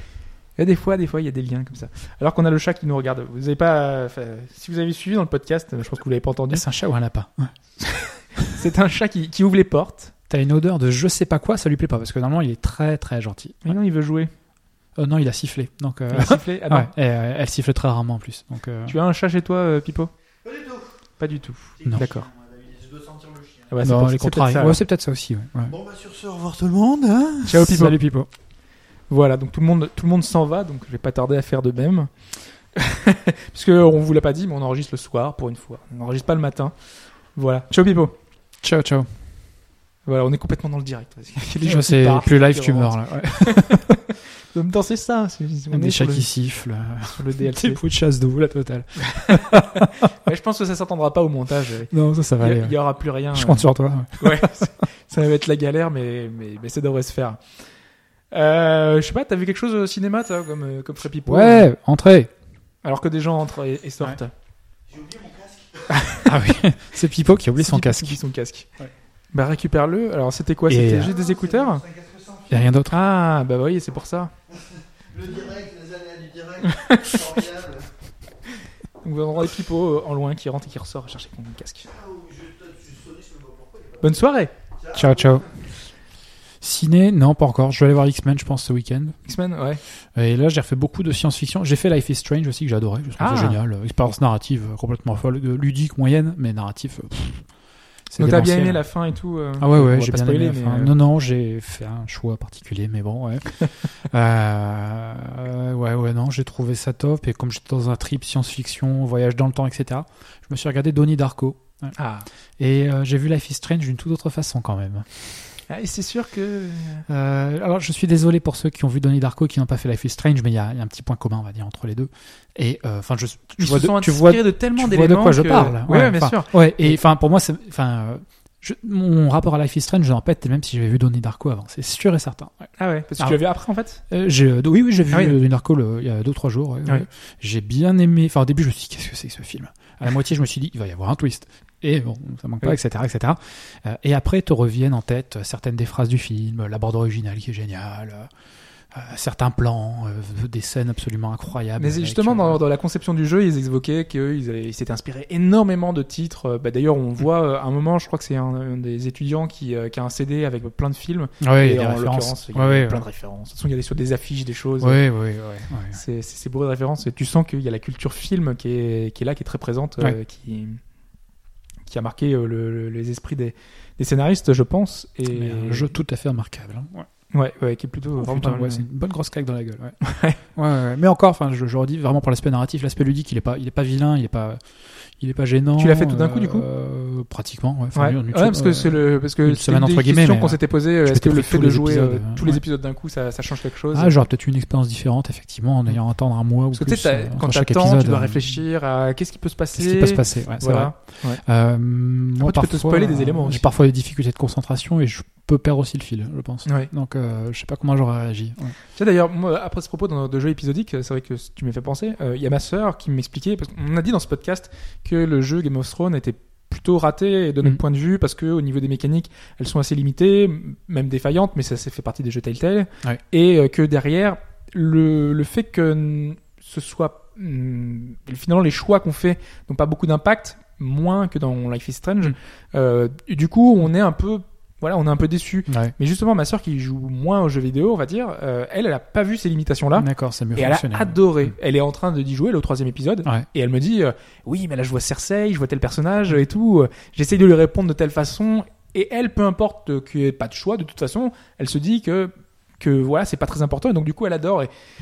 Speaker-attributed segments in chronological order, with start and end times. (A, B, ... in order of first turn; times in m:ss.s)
0:00.6-0:06.6 A
0:06.5-0:07.5 B
0:07.8-0:10.1 A
0:10.3-0:13.8 B
0:13.6-0:14.3 A
0:15.0-0:19.0 B
0:16.1-0:16.9 A
0:18.9-0:20.1 A
0:20.4-0:21.0 C
0:21.2-0:22.3 A
0:21.8-0:23.8 C
0:23.7-0:24.8 A
0:23.8-0:25.7 B
0:25.6-0:27.6 C
0:27.4-0:28.0 A
0:27.5-0:28.3 B
0:29.1-0:36.7 A
0:37.3-0:38.1 A
0:38.6-0:39.1 B
0:40.0-0:46.3 A
0:41.6-0:44.0 B
0:45.7-0:49.9 B
0:47.1-0:47.8 A
0:49.2-0:57.4 A
0:51.9-0:52.8 B
0:53.3-0:54.6 B
0:58.3-1:01.7 A
1:01.2-1:02.3 B
1:02.8-1:04.3 A
1:04.9-1:06.1 C
1:06.2-1:08.2 B
1:07.6-1:08.7 A
1:09.3-1:11.8 A
1:10.7-1:11.1 B
1:10.9-1:12.7 C
1:12.5-1:13.0 B
1:12.9-1:14.3 A
1:14.5-1:17.9 C
1:16.6-1:17.2 A
1:19.0-1:21.9 A
1:21.9-1:24.2 C
1:24.0-1:24.5 A
1:24.8-1:25.5 C
1:24.9-1:25.5 B
1:26.6-1:29.2 B
1:29.2-1:29.8 A
1:30.1-1:37.4 B
1:33.2-1:33.6 A
1:38.1-1:38.8 B
1:38.2-1:40.9 A
1:39.6-1:43.5 B
1:44.0-1:51.9 B
1:52.0-1:52.3 A
1:52.6-1:55.3 B
1:55.7-1:57.0 A
1:57.1-2:13.4 B
2:03.6-2:07.0 A
2:12.8-2:14.0 A
2:14.1-2:28.3 B
2:15.1-2:15.4 A
2:28.9-2:32.6 B
2:31.8-2:45.0 A
2:41.4-2:43.0 B
2:44.8-2:46.0 B
2:45.9-2:50.8 A
2:51.8-2:55.9 A
2:55.3-2:57.1 B
2:57.3-2:58.8 A
2:58.2-3:00.0 B
3:00.0-3:00.4 A
3:00.5-3:04.6 B
3:05.2-3:12.6 B
3:05.8-3:06.7 A
3:07.9-3:14.2 A
3:13.9-3:18.6 B
3:16.7-3:21.4 A
3:19.8-3:28.8 B
3:22.4-3:23.7 A
3:28.9-4:14.7 A
3:55.7-3:55.9 B
4:00.0-4:01.5 B